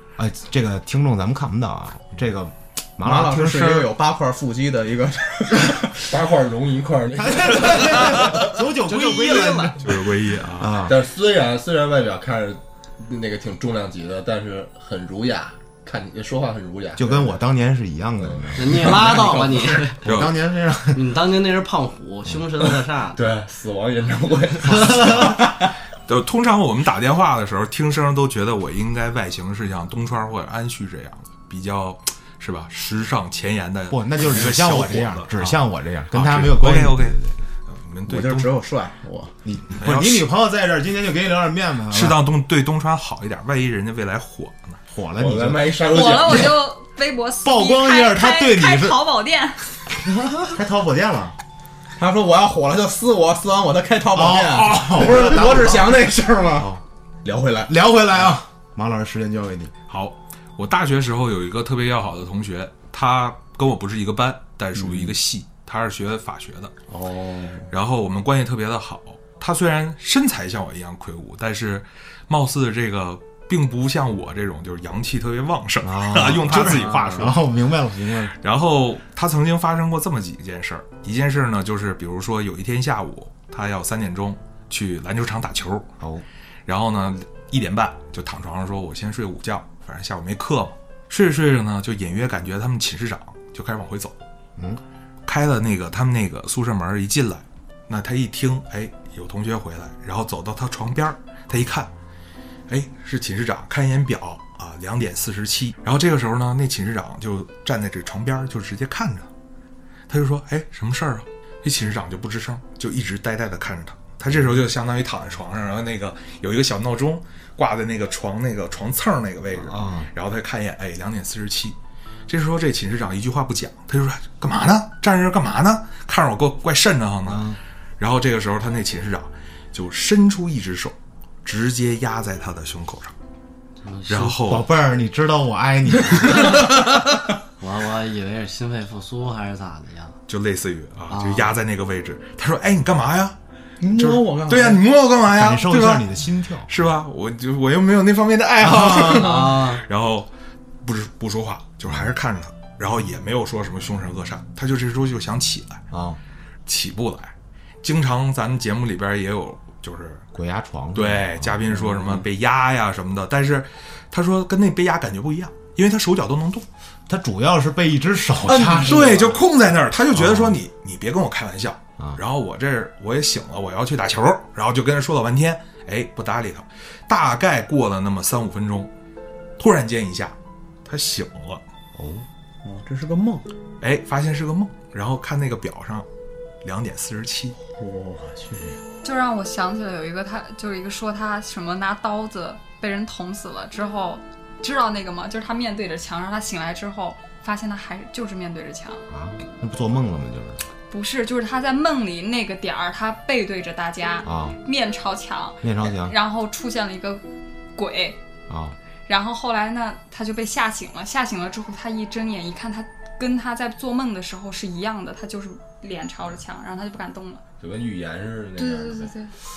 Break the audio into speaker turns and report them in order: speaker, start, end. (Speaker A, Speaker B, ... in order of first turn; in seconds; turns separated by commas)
Speaker A: 0.2-3.9, Speaker B: 3.0-6.1, Speaker C: 6.1-8.4, Speaker A: 7.2-10.0, Speaker D: 7.9-8.4, Speaker E: 8.8-9.8, Speaker D: 9.8-10.8, Speaker A: 10.6-11.0, Speaker C: 10.8-17.3, Speaker A: 17.0-21.0, Speaker C: 18.2-19.4, Speaker E: 18.6-20.1, Speaker D: 20.1-20.4, Speaker E: 20.9-23.3, Speaker C: 22.7-25.3, Speaker E: 24.8-25.3, Speaker D: 26.1-35.6, Speaker A: 33.9-37.4, Speaker D: 36.1-38.5, Speaker B: 38.1-39.4, Speaker A: 39.5-42.2, Speaker D: 39.8-40.3, Speaker D: 41.9-44.8, Speaker A: 44.9-45.8, Speaker C: 45.2-46.6, Speaker F: 45.9-49.6, Speaker A: 47.4-49.0, Speaker A: 50.4-51.4, Speaker B: 52.0-57.7, Speaker A: 54.1-56.8, Speaker A: 57.7-59.7, Speaker D: 59.9-66.7, Speaker B: 64.8-65.1, Speaker B: 66.9-67.7, Speaker D: 67.7-77.4, Speaker A: 75.8-78.4, Speaker E: 76.7-77.1, Speaker D: 78.3-85.9, Speaker D: 86.7-94.2, Speaker D: 95.3-101.9, Speaker D: 102.7-109.3, Speaker D: 110.1-121.8, Speaker A: 119.5-120.1, Speaker D: 122.3-133.2, Speaker A: 127.2-127.6, Speaker E: 133.8-134.4, Speaker D: 134.1-134.7, Speaker A: 134.4-136.7, Speaker E: 137.6-140.2, Speaker D: 140.3-143.4, Speaker E: 141.1-141.6, Speaker B: 143.8-144.8, Speaker D: 143.9-146.1, Speaker A: 145.2-146.8, Speaker D: 146.7-150.3, Speaker B: 148.7-149.6, Speaker E: 149.0-149.8, Speaker D: 150.8-155.8, Speaker A: 155.9-156.2, Speaker D: 156.7-160.2, Speaker A: 160.3-162.2, Speaker D: 160.9-166.7, Speaker A: 167.1-169.4, Speaker B: 168.5-169.4, Speaker D: 168.5-178.9, Speaker A: 170.1-170.6, Speaker D: 179.6-181.6, Speaker A: 181.9-182.3, Speaker B: 182.6-183.5, Speaker D: 183.8-186.1, Speaker D: 186.6-187.6, Speaker B: 187.8-188.8, Speaker F: 189.0-199.0, Speaker A: 199.1-200.6, Speaker F: 200.9-208.2, Speaker A: 204.2-204.6, Speaker A: 205.6-206.2, Speaker A: 208.5-208.8, Speaker F: 209.1-217.4, Speaker C: 217.6-219.1, Speaker F: 218.6-219.3